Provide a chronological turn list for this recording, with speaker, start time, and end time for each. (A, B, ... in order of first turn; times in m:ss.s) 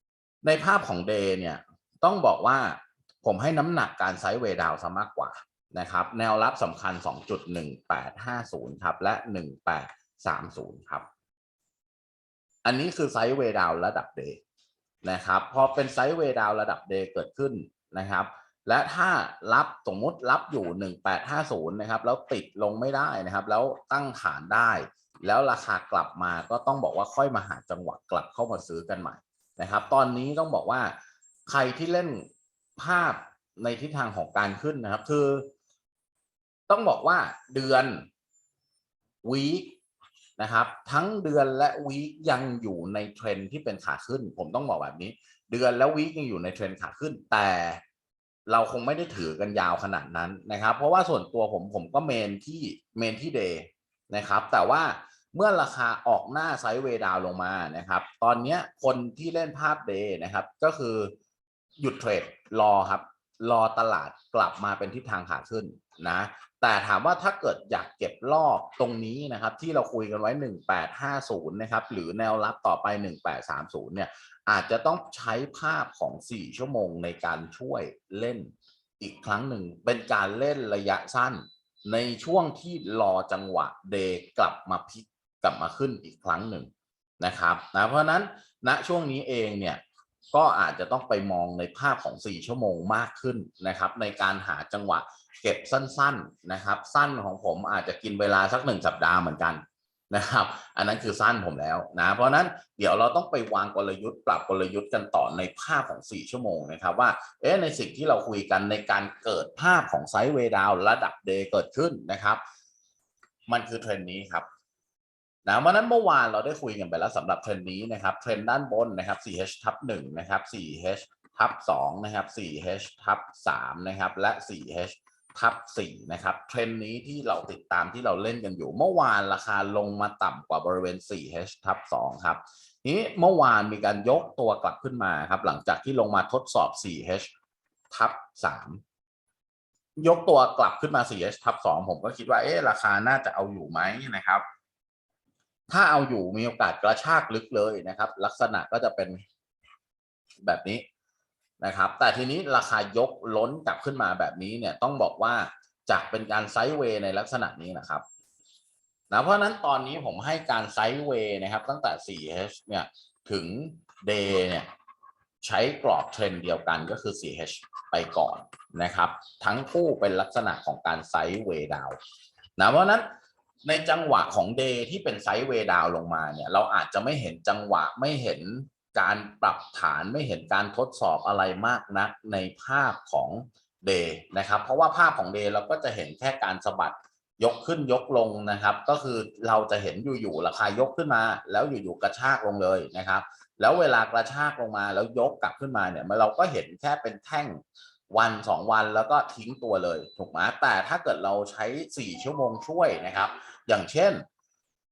0:00.4-0:11.1 A
0:12.6-0:14.4 A
0:15.0-0:31.0 A
0:31.5-0:35.5 A
0:36.7-0:38.1 A
0:39.2-0:39.8 A
0:40.4-0:47.8 A
0:48.5-1:01.2 A
1:01.8-1:26.7 A
1:27.2-1:29.8 A
1:30.3-1:52.4 A
1:53.5-1:54.5 A
1:55.5-2:17.3 A
2:17.9-2:18.8 A
2:20.0-2:24.4 A
2:25.7-2:29.2 A
2:30.4-2:30.8 A
2:31.6-2:38.0 A
2:39.1-2:44.7 A
2:45.4-2:52.0 A
2:52.6-2:53.1 A
2:53.6-3:24.2 A